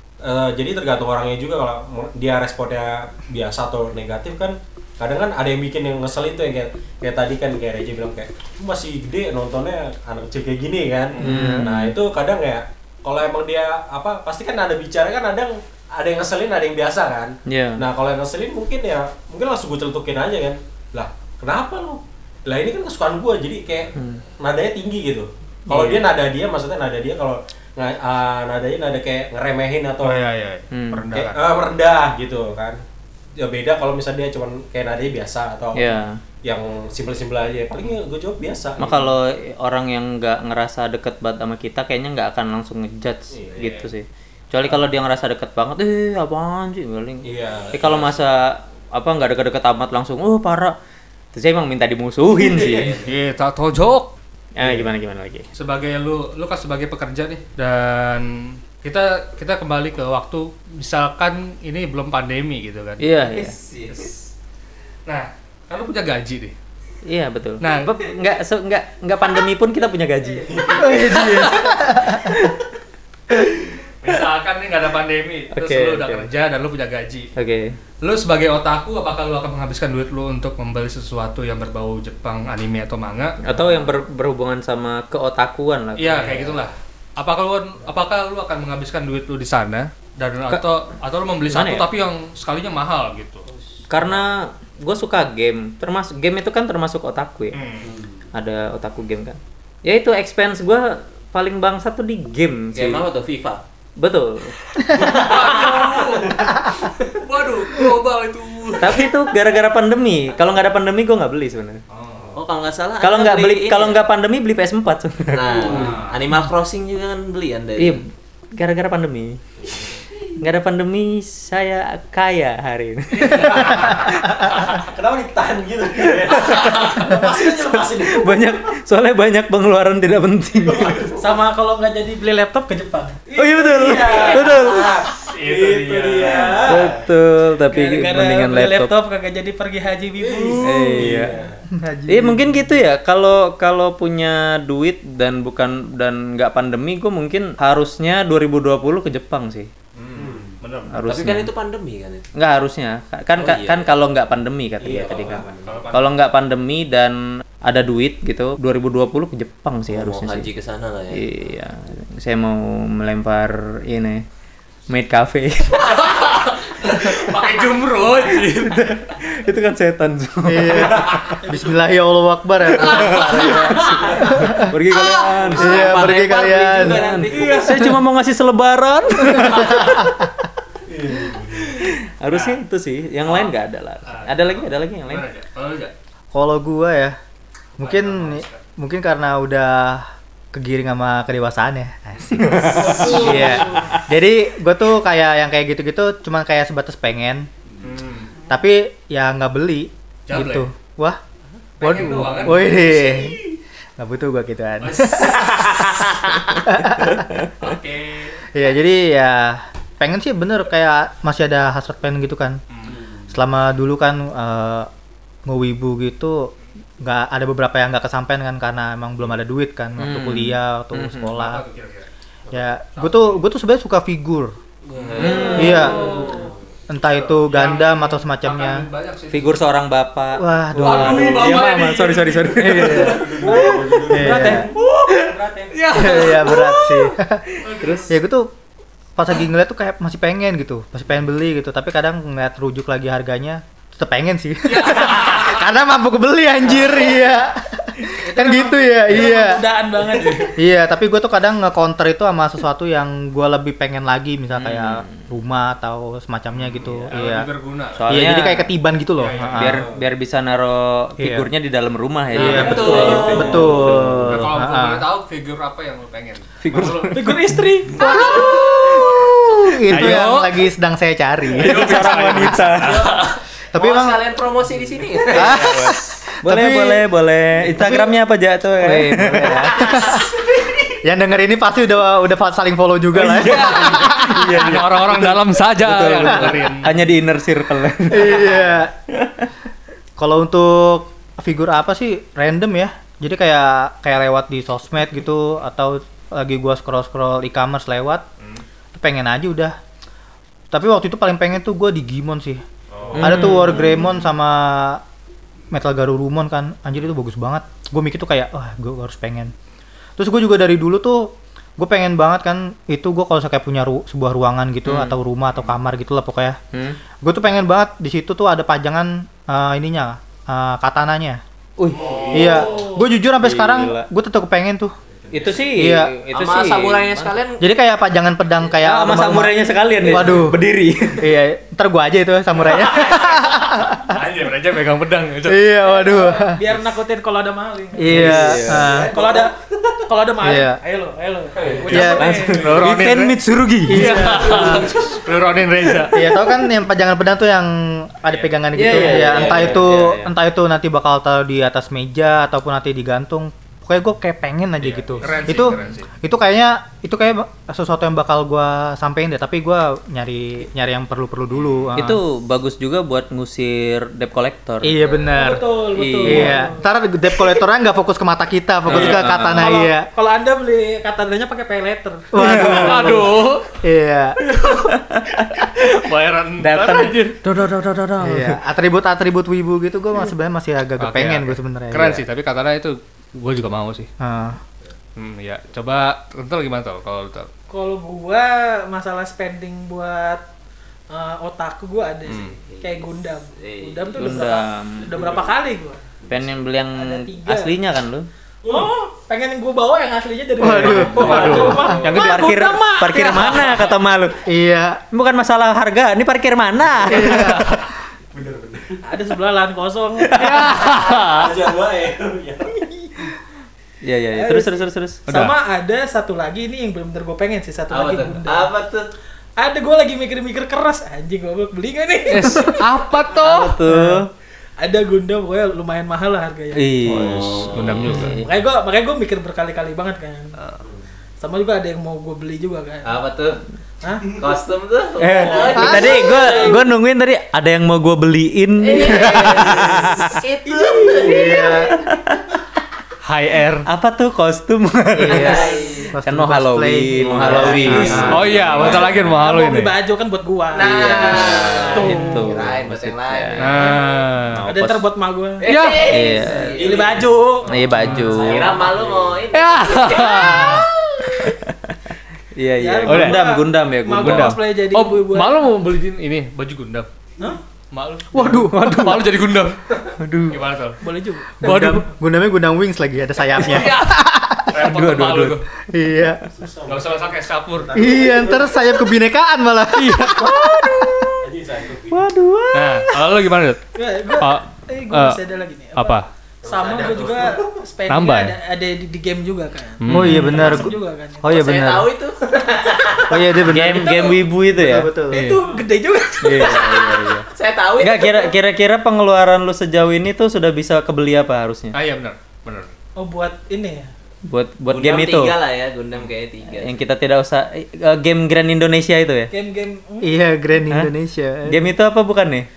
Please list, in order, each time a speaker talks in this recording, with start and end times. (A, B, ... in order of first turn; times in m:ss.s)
0:00.2-0:30.2 A
0:11.1-0:11.6 B
0:11.2-0:12.0 C
0:17.5-0:17.9 C
0:24.0-0:24.2 C
0:25.7-0:26.0 C
0:30.0-0:31.5 B
0:30.7-0:31.0 C
0:31.1-0:32.8 A
0:33.4-0:35.8 A
0:35.7-0:36.2 C
0:36.4-0:39.0 A
0:38.8-0:50.8 C
0:43.3-0:43.9 A
0:47.2-0:48.2 A
0:51.3-0:53.0 C
0:52.3-0:53.1 A
0:53.0-0:54.1 B
0:54.6-0:55.5 C
0:54.6-0:54.9 A
0:55.5-1:03.0 B
1:03.0-1:03.6 C
1:03.3-1:04.1 D
1:05.0-1:06.5 B
1:07.0-1:12.4 C
1:07.6-1:07.9 B
1:10.5-1:10.8 A
1:10.8-1:12.4 E
1:14.0-1:17.3 B
1:15.5-1:16.3 C
1:17.4-1:17.8 C
1:18.0-1:23.4 B
1:23.4-1:26.7 C
1:26.0-1:33.4 B
1:31.5-1:31.9 C
1:33.9-1:37.6 C
1:37.5-1:37.9 B
1:37.8-1:38.1 A
1:38.3-1:43.1 C
1:42.7-1:43.6 D
1:44.0-1:44.6 C
1:44.9-1:49.1 B
1:45.2-1:45.5 D
1:48.8-1:51.8 C
1:51.9-1:52.3 B
1:52.3-1:54.0 D
1:53.0-1:55.8 C
1:55.3-1:58.0 D
1:55.5-1:56.0 A
1:55.6-1:56.2 B
1:58.5-1:59.4 C
2:00.4-2:04.6 C
2:03.1-2:04.1 B
2:04.7-2:08.6 A
2:06.0-2:11.0 C
2:10.6-2:11.3 A
2:11.2-2:14.6 F
2:13.3-2:17.0 A
2:13.4-2:14.9 C
2:15.3-2:16.8 B
2:16.6-2:18.9 C
2:17.7-2:21.0 F
2:20.2-2:21.6 A
2:20.6-2:21.4 C
2:21.7-2:22.6 E
2:22.1-2:29.7 C
2:30.0-2:31.0 B
2:30.1-2:30.6 A
2:30.9-2:31.5 C
2:31.0-2:32.3 D
2:32.4-2:40.5 C
2:33.4-2:33.9 D
2:34.8-2:35.9 A
2:35.6-2:36.1 B
2:39.9-2:41.2 D
2:41.1-2:44.2 C
2:44.9-2:46.0 C
2:45.7-2:49.0 B
2:47.0-2:47.4 C
2:48.2-2:51.2 C
2:50.4-2:54.7 E
2:52.7-2:56.2 C
2:52.9-2:54.0 D
2:53.0-2:53.8 B
2:54.9-2:55.6 B
2:55.5-2:57.8 D
2:55.6-2:57.1 E
2:56.8-3:00.2 C
2:57.3-2:57.8 B
2:59.2-3:00.2 E
3:00.9-3:01.8 A
3:01.8-3:05.3 C
3:02.3-3:02.6 B
3:03.2-3:03.5 B
3:04.1-3:05.9 B
3:06.3-3:07.2 E
3:07.8-3:08.6 B
3:07.8-3:17.5 E
3:12.4-3:13.5 C
3:12.7-3:13.9 F
3:12.8-3:13.4 A
3:17.8-3:18.3 B
3:18.5-3:21.2 E
3:20.3-3:20.7 B
3:21.8-3:23.1 B
3:21.8-3:23.4 E
3:23.0-3:23.3 A
3:24.0-3:27.4 E
3:24.8-3:25.7 B
3:27.0-3:27.5 C
3:27.6-3:28.4 B
3:28.5-3:32.6 E
3:32.7-3:33.0 B
3:32.8-3:33.3 A
3:33.3-3:34.9 E
3:35.4-3:41.6 E
3:40.0-3:41.4 C
3:41.3-3:42.1 B
3:42.5-3:44.5 E
3:43.0-3:43.5 B
3:44.9-3:46.5 D
3:44.9-3:49.5 B
3:45.2-3:46.2 C
3:45.5-3:46.2 E
3:46.2-3:46.4 A
3:46.9-3:48.9 E
3:49.3-3:53.6 C
3:50.4-3:51.6 E
3:50.8-3:53.1 B
3:52.6-3:54.7 E
3:52.9-3:55.8 A
3:53.4-3:54.7 F
3:55.0-3:55.3 C
3:55.7-3:56.9 B
3:55.8-3:58.1 C
3:55.9-3:57.4 E
3:57.6-3:58.1 B
3:58.1-3:58.5 E
3:59.2-4:09.7 E
4:04.7-4:05.6 B
4:08.2-4:10.5 F
4:10.2-4:17.5 E
4:14.5-4:15.1 C
4:16.8-4:17.1 C
4:17.1-4:18.4 B
4:18.0-4:18.7 C
4:18.1-4:19.8 E
4:19.2-4:19.8 B
4:19.5-4:24.5 C
4:21.2-4:21.5 E
4:22.3-4:27.3 B
4:22.3-4:25.0 E
4:22.5-4:23.4 D
4:22.8-4:23.8 A
4:26.6-4:27.5 C
4:27.1-4:28.4 F
4:27.9-4:32.7 E
4:28.0-4:29.0 B
4:29.9-4:30.7 B
4:29.9-4:30.3 C
4:31.5-4:33.3 B
4:31.6-4:33.1 C
4:32.8-4:35.8 D
4:33.7-4:34.3 E
4:35.3-4:37.0 E
4:35.3-4:40.0 C
4:37.6-4:38.1 E
4:38.8-4:40.3 E
4:39.6-4:41.0 D
4:41.0-4:45.3 E
4:43.1-4:47.0 B
4:43.2-4:49.4 C
4:46.2-4:46.5 E
4:48.1-4:48.9 E
4:50.2-4:58.2 E
4:58.9-4:59.8 E
5:00.7-5:02.6 E
5:02.9-5:03.5 B
5:03.0-5:03.3 A
5:03.1-5:04.1 C
5:03.2-5:05.0 E
5:05.7-5:09.5 E
5:10.2-5:16.6 E
5:14.8-5:15.2 C
5:16.7-5:17.0 C
5:17.2-5:21.4 E
5:21.8-5:22.7 C
5:21.9-5:23.0 A
5:22.0-5:22.4 B
5:22.3-5:24.9 E
5:22.5-5:23.0 F
5:23.4-5:24.1 C
5:25.3-5:25.7 A
5:25.3-5:27.4 C
5:25.7-5:26.1 E
5:26.3-5:27.6 D
5:27.6-5:30.6 E
5:28.8-5:31.4 C
5:31.2-5:34.1 E
5:32.7-5:35.7 B
5:35.5-5:36.6 E
5:35.8-5:39.5 F
5:38.0-5:39.1 E
5:38.0-5:39.1 C
5:38.8-5:39.5 A
5:40.1-5:42.6 F
5:40.4-5:40.8 E
5:41.5-5:42.2 A
5:41.8-5:46.3 B
5:41.9-5:42.3 E
5:41.9-5:44.2 C
5:43.9-5:44.9 E
5:46.1-6:02.2 E
5:48.3-5:49.6 B
5:48.7-5:50.3 C
5:49.3-5:49.7 A
5:54.8-5:56.1 B
6:01.5-6:01.9 B
6:02.0-6:05.2 C
6:04.8-6:05.7 E
6:05.3-6:06.8 F
6:05.9-6:06.7 C
6:06.2-6:10.1 E
6:08.9-6:09.8 C
6:08.9-6:09.3 B
6:09.4-6:12.3 F
6:12.3-6:14.4 E
6:12.3-6:13.2 C
6:12.4-6:13.7 B
6:14.4-6:14.9 B
6:14.9-6:15.8 C
6:15.5-6:17.4 B
6:16.6-6:18.6 C
6:18.2-6:22.2 E
6:21.0-6:24.1 B
6:24.2-6:24.6 E
6:25.2-6:27.5 B
6:27.7-6:30.4 F
6:31.1-6:36.0 F
6:32.3-6:32.6 B
6:32.7-6:33.0 D
6:33.5-6:34.3 D
6:34.2-6:35.1 C
6:36.3-6:38.3 C
6:37.0-6:37.8 F
6:38.7-6:43.9 F
6:40.6-6:42.1 E
6:40.8-6:42.2 A
6:40.9-6:42.5 B
6:42.0-6:44.4 C
6:44.4-6:45.0 E
6:45.1-6:47.8 C
6:47.1-6:47.9 E
6:48.3-6:49.0 A
6:49.0-6:51.4 F
6:50.2-6:51.5 B
6:51.2-6:52.8 A
6:54.0-6:55.5 C
6:54.3-6:58.7 F
6:55.3-6:55.5 B
6:57.9-6:59.1 D
6:59.6-7:02.8 F
7:02.3-7:03.8 B
7:03.3-7:04.3 C
7:03.9-7:04.1 E
7:04.8-7:06.9 F
7:06.7-7:08.5 C
7:07.0-7:08.4 B
7:08.3-7:10.6 F
7:11.4-7:13.2 F
7:13.0-7:13.6 D
7:14.0-7:14.3 F
7:14.3-7:16.7 D
7:15.2-7:20.4 C
7:15.4-7:16.8 F
7:15.7-7:16.4 E
7:18.8-7:21.9 D
7:20.6-7:21.8 F
7:21.1-7:22.0 E
7:21.9-7:22.4 C
7:23.2-7:23.9 B
7:23.8-7:28.6 C
7:25.2-7:28.5 E
7:25.3-7:26.1 D
7:27.2-7:28.9 D
7:27.6-7:32.6 F
7:27.8-7:29.9 B
7:30.7-7:34.0 D
7:30.8-7:33.9 C
7:33.6-7:34.7 B
7:34.6-7:35.0 C
7:34.7-7:37.8 F
7:35.6-7:37.2 D
7:35.6-7:36.2 B
7:36.1-7:36.7 C
7:36.7-7:39.4 A
7:37.7-7:38.8 C
7:37.9-7:38.4 B
7:38.3-7:40.8 D
7:39.5-7:40.8 B
7:40.4-7:41.9 C
7:42.5-7:44.6 C
7:42.8-7:45.6 F
7:43.1-7:43.4 B
7:44.2-7:47.1 B
7:47.9-7:51.0 B
7:48.3-7:49.2 E
7:48.5-7:49.2 C
7:50.2-7:50.7 C
7:51.0-7:51.5 F
7:51.6-7:52.1 B
7:51.6-7:54.8 E
7:53.6-7:55.6 B
7:54.7-7:55.6 C
7:55.9-7:56.5 E
7:56.5-7:58.8 A
7:56.9-7:58.2 B
7:57.9-8:01.4 E
8:00.0-8:00.5 B
8:00.7-8:01.2 C
8:01.4-8:02.2 A
8:02.1-8:02.5 C
8:02.2-8:03.2 E
8:02.7-8:03.8 B
8:03.9-8:11.4 F
8:04.3-8:05.4 B
8:06.0-8:06.2 B
8:06.6-8:07.7 A
8:08.1-8:08.5 B
8:10.0-8:10.8 B
8:10.1-8:10.9 C
8:10.1-8:12.1 E
8:11.4-8:13.3 D
8:12.8-8:13.2 F
8:13.3-8:15.6 E
8:13.7-8:15.5 C
8:15.3-8:17.1 F
8:16.4-8:17.5 C
8:17.5-8:18.5 D
8:18.0-8:22.0 C
8:21.9-8:22.9 B
8:23.2-8:24.1 F
8:24.5-8:25.5 C
8:24.9-8:27.0 D
8:26.7-8:29.5 C
8:29.5-8:30.4 F
8:30.2-8:31.9 E
8:30.9-8:31.1 C
8:31.6-8:32.7 C